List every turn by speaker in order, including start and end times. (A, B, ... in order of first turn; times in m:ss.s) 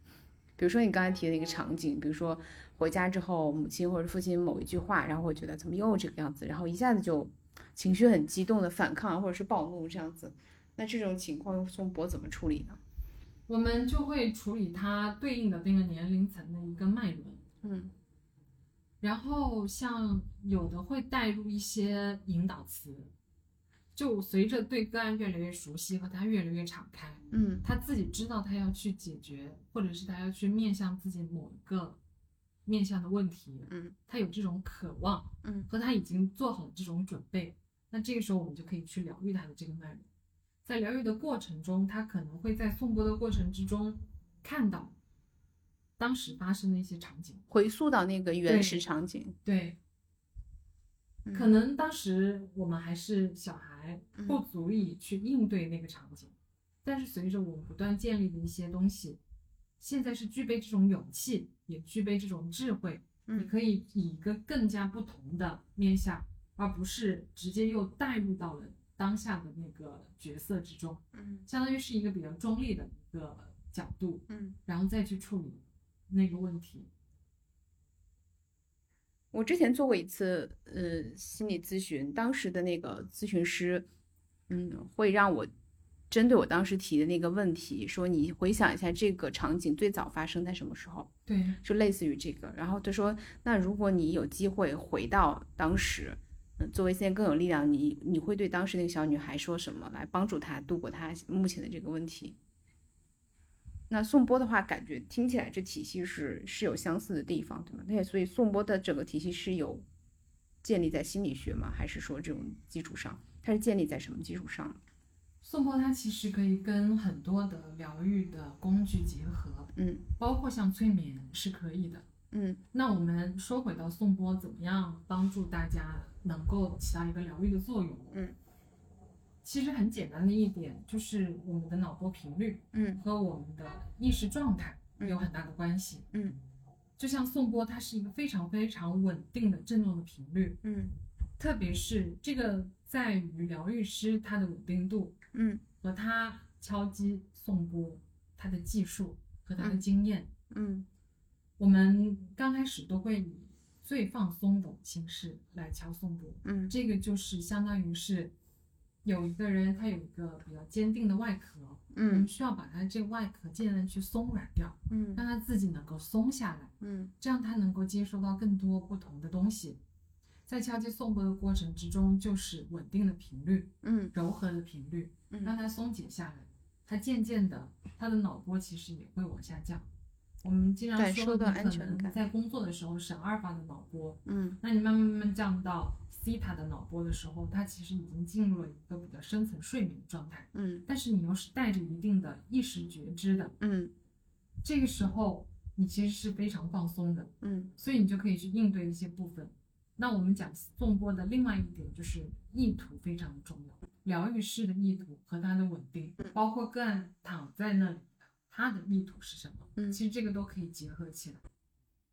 0:00.6-0:12.8 A
0:13.5-0:17.4 B
0:17.6-0:17.9 A
0:19.0-0:23.1 B
0:23.9-0:32.0 B
0:27.3-0:27.6 A
0:32.6-0:40.1 B
0:33.7-0:33.9 A
0:35.4-0:35.7 A
0:40.6-0:45.0 B
0:46.0-0:47.4 B
0:47.5-0:49.4 A
0:48.4-0:48.8 B
0:49.4-0:49.8 B
0:51.2-0:51.6 A
0:51.3-0:59.2 B
0:54.2-0:54.4 A
0:59.8-1:16.9 B
1:03.3-1:03.5 A
1:11.1-1:11.4 A
1:14.3-1:14.6 A
1:19.3-1:23.8 A
1:24.5-1:25.5 A
1:26.1-1:31.1 A
1:31.3-1:31.6 B
1:31.6-1:42.4 A
1:43.9-1:49.8 A
1:50.6-1:54.8 A
1:55.4-2:02.1 B
1:59.8-2:00.0 A
2:02.3-2:02.6 A
2:02.7-2:08.1 B
2:09.4-2:16.1 B
2:12.7-2:13.0 A
2:15.0-2:15.2 A
2:16.1-2:16.4 A
2:17.0-2:20.6 B
2:20.6-2:21.0 A
2:21.4-2:25.2 B
2:25.3-2:25.6 A
2:25.8-2:30.3 B
2:29.6-2:29.8 A
2:30.5-2:30.9 A
2:31.6-2:38.3 B
2:36.4-2:36.7 A
2:39.0-2:49.8 B
2:41.9-2:42.3 A
2:44.9-2:45.2 A
2:46.8-2:47.1 A
2:50.5-2:59.9 B
2:53.8-2:54.1 A
2:55.3-2:55.6 A
3:00.4-3:13.6 B
3:01.0-3:02.2 A
3:04.2-3:04.6 A
3:10.5-3:10.8 A
3:13.6-3:13.9 A
3:14.6-3:31.4 B
3:17.4-3:17.7 A